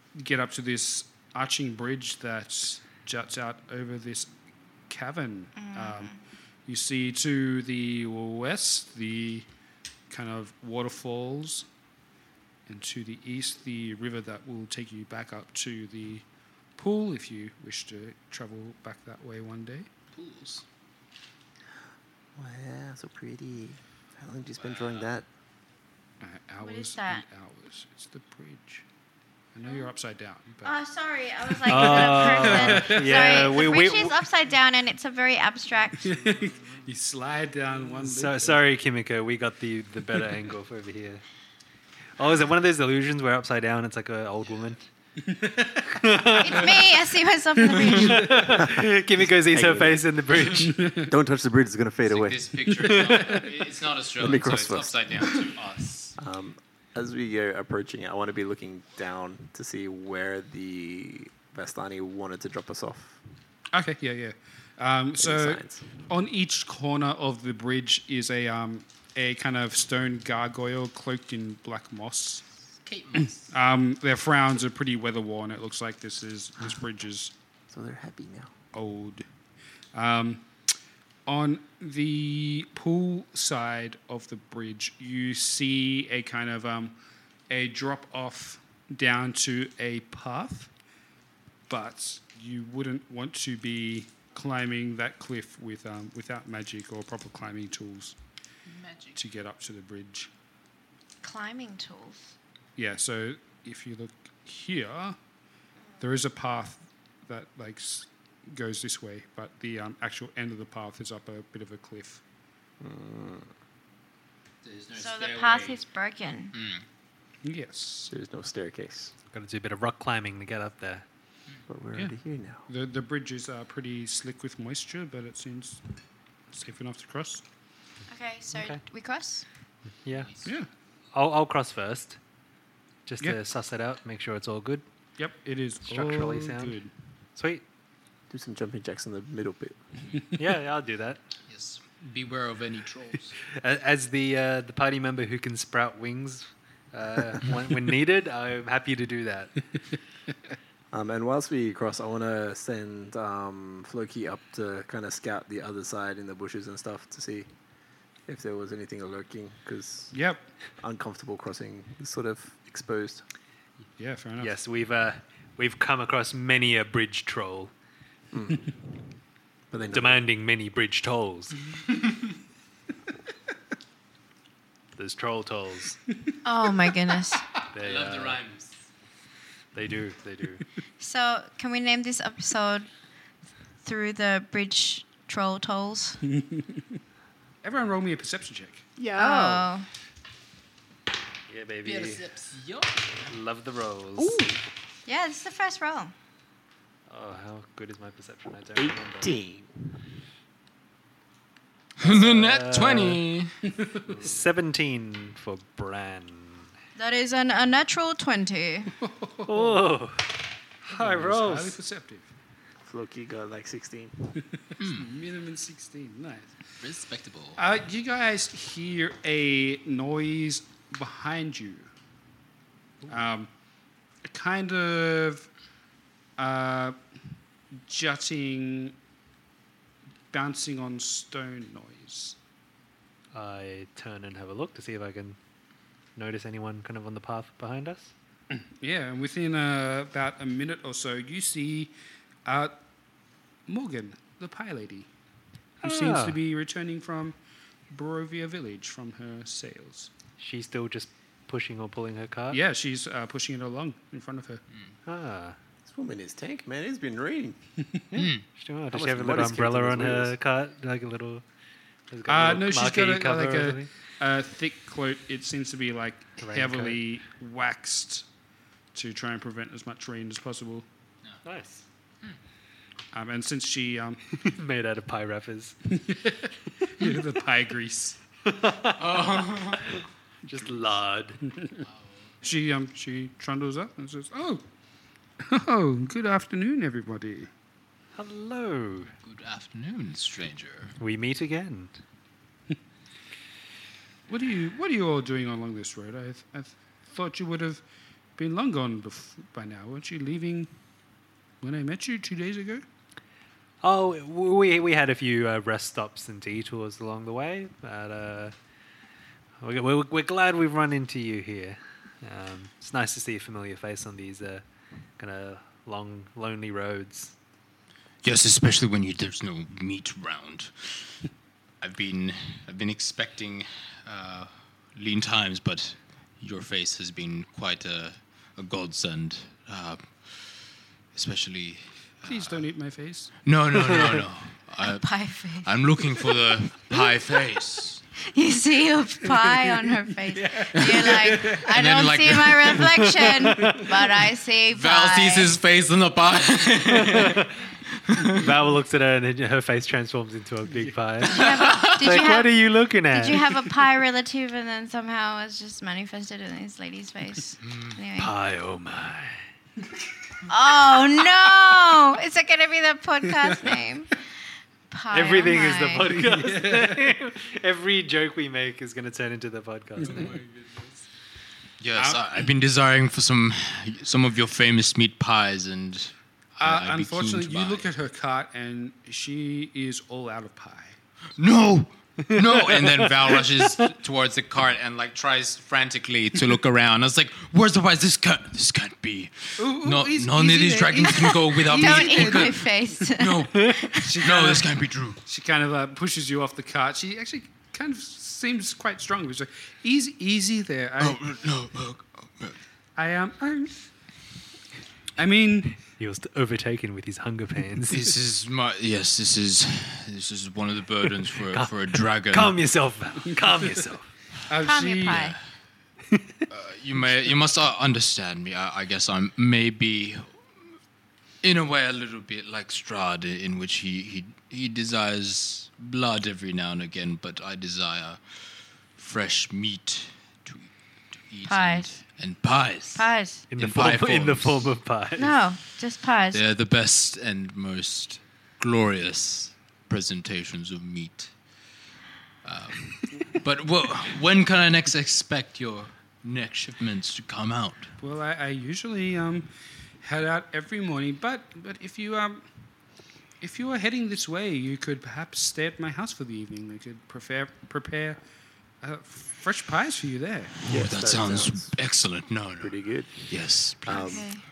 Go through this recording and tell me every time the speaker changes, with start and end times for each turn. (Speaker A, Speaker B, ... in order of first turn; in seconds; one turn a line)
Speaker A: 0.1-4.3
Speaker A: 4.9-6.1
Speaker B: 5.5-6.2
Speaker A: 6.7-9.4
Speaker A: 10.1-11.7
Speaker A: 12.7-16.2
Speaker A: 16.8-19.9
Speaker C: 20.1-20.6
Speaker D: 22.4-25.2
Speaker C: 24.6-25.1
Speaker A: 26.2-28.8
Speaker B: 26.6-27.2
Speaker A: 29.5-30.7
Speaker B: 30.6-36.2
Speaker E: 31.6-34.2
Speaker A: 31.7-33.5
Speaker A: 36.0-38.6
Speaker E: 37.8-41.2
Speaker E: 42.2-44.9
Speaker A: 45.2-45.8
Speaker E: 45.9-46.9
Speaker B: 46.4-48.3
Speaker A: 47.7-48.4
Speaker E: 47.9-50.8
Speaker D: 48.6-50.0
Speaker A: 50.8-51.1
Speaker D: 51.0-52.6
Speaker C: 52.0-56.1
Speaker A: 52.8-53.5
Speaker D: 54.2-55.1
Speaker D: 56.2-63.2
Speaker A: 63.7-72.4
Speaker D: 65.2-65.9
Speaker C: 72.8-73.5
Speaker A: 73.2-77.3
Speaker D: 77.7-78.5
Speaker A: 78.7-79.2
Speaker A: 79.9-80.5
Speaker A: 81.2-86.9
Speaker A: 87.5-90.7
Speaker A: 91.7-98.2
Speaker C: 98.7-99.2
Speaker A: 99.2-100.3
Speaker B: 101.2-102.3
Speaker A: 102.8-105.2
Speaker A: 106.0-112.2
Speaker D: 112.8-113.5
Speaker C: 114.6-115.8
Speaker B: 114.9-116.6
Speaker C: 116.5-116.8
Speaker A: 117.4-118.1
Speaker D: 118.1-119.1
Speaker E: 119.3-121.0
Speaker D: 121.7-122.7
Speaker A: 122.7-125.8
Speaker A: 126.5-127.4
Speaker B: 128.1-129.4
Speaker E: 128.5-128.8
Speaker E: 130.0-130.3
Speaker C: 130.2-130.5
Speaker A: 130.4-130.7
Speaker E: 131.1-132.2
Speaker E: 133.1-134.8
Speaker A: 135.2-136.9
Speaker E: 135.8-136.8
Speaker E: 137.3-137.6
Speaker D: 138.3-139.8
Speaker E: 140.3-141.2
Speaker C: 141.5-143.3
Speaker E: 143.6-149.6
Speaker D: 150.9-157.5
Speaker D: 158.3-160.2
Speaker A: 160.1-160.5
Speaker D: 160.8-163.2
Speaker A: 164.0-164.6
Speaker E: 164.4-167.7
Speaker D: 168.3-168.8
Speaker D: 169.7-170.2
Speaker E: 169.9-171.6
Speaker E: 174.9-176.0
Speaker B: 176.4-177.4
Speaker E: 177.7-178.4
Speaker C: 177.8-178.7
Speaker E: 179.7-180.6
Speaker B: 181.0-182.9
Speaker B: 183.8-186.2
Speaker A: 186.4-186.8
Speaker A: 187.6-188.9
Speaker B: 189.2-189.9
Speaker E: 191.5-192.3
Speaker C: 191.8-193.3
Speaker E: 193.3-194.6
Speaker B: 195.1-196.1
Speaker E: 197.1-199.3
Speaker D: 198.8-200.0
Speaker C: 202.0-203.5
Speaker E: 202.0-203.2
Speaker A: 203.7-204.2
Speaker E: 204.2-206.7
Speaker B: 206.9-208.9
Speaker A: 209.0-209.9
Speaker E: 209.4-210.2
Speaker E: 210.8-211.8
Speaker A: 210.9-212.3
Speaker D: 212.8-214.4
Speaker C: 214.8-215.1
Speaker A: 214.8-216.6
Speaker C: 216.8-217.6
Speaker A: 217.6-221.9
Speaker A: 223.1-223.5
Speaker A: 224.2-225.5
Speaker A: 226.4-227.0
Speaker A: 227.8-228.9
Speaker A: 230.3-232.4
Speaker E: 233.3-235.4
Speaker E: 236.2-238.1
Speaker A: 238.5-241.9
Speaker A: 242.4-242.8
Speaker A: 243.7-245.1
Speaker A: 245.8-247.3
Speaker E: 245.8-246.4
Speaker A: 247.9-250.1
Speaker E: 250.4-252.6
Speaker A: 252.5-254.6
Speaker E: 255.1-255.6
Speaker D: 255.8-257.6
Speaker E: 258.1-261.4
Speaker C: 258.1-258.4
Speaker D: 258.9-260.4
Speaker E: 262.1-263.9
Speaker A: 262.2-268.2
Speaker E: 266.4-267.0
Speaker A: 268.9-270.8
Speaker E: 271.4-271.8
Speaker A: 273.1-274.2
Speaker E: 274.4-275.8
Speaker A: 275.9-278.2
Speaker E: 278.4-279.3
Speaker C: 279.0-279.9
Speaker E: 279.8-281.4
Speaker A: 281.5-281.8
Speaker A: 282.4-284.6
Speaker A: 285.4-287.5
Speaker E: 288.1-289.1
Speaker C: 289.2-290.9
Speaker E: 291.0-292.0
Speaker A: 294.3-297.8
Speaker A: 298.4-300.7
Speaker A: 301.6-302.8
Speaker E: 303.8-308.5
Speaker E: 309.6-314.6
Speaker E: 315.2-317.3
Speaker C: 318.2-321.3
Speaker C: 321.8-332.6
Speaker A: 332.2-333.3
Speaker C: 333.4-338.0
Speaker B: 334.8-335.7
Speaker B: 338.3-345.5
Speaker A: 340.3-341.6
Speaker C: 340.7-342.9
Speaker E: 343.2-343.9
Speaker C: 344.7-348.4
Speaker E: 346.9-347.6
Speaker E: 348.3-353.4
Speaker C: 351.2-352.3
Speaker B: 351.2-358.3
Speaker C: 357.6-358.0
Speaker E: 358.2-359.4
Speaker B: 360.5-364.3
Speaker A: 363.3-363.8
Speaker B: 364.9-366.1
Speaker E: 365.1-370.4
Speaker A: 366.1-367.1
Speaker A: 370.0-370.3
Speaker C: 371.8-377.9
Speaker A: 371.9-372.3
Speaker A: 376.6-380.9
Speaker C: 381.4-395.2
Speaker E: 382.3-383.4
Speaker A: 389.6-392.6
Speaker B: 391.3-394.1
Speaker A: 394.0-394.7
Speaker A: 395.2-401.2
Speaker C: 401.0-402.6
Speaker A: 402.9-403.9
Speaker A: 405.2-405.8
Speaker E: 405.8-408.0
Speaker C: 407.9-412.6
Speaker E: 411.5-414.1
Speaker A: 414.5-415.4
Speaker B: 414.6-415.4
Speaker C: 415.1-415.4
Speaker C: 416.5-420.4
Speaker C: 421.4-434.7
Speaker B: 431.5-432.0
Speaker B: 432.9-433.4
Speaker E: 433.5-435.3
Speaker B: 435.2-436.4
Speaker C: 436.3-441.3
Speaker C: 442.4-447.9
Speaker A: 448.0-449.5
Speaker A: 450.0-452.4
Speaker A: 453.4-458.2
Speaker A: 458.8-460.5
Speaker D: 460.7-461.8
Speaker C: 460.7-464.2
Speaker D: 462.6-464.3
Speaker B: 463.9-464.4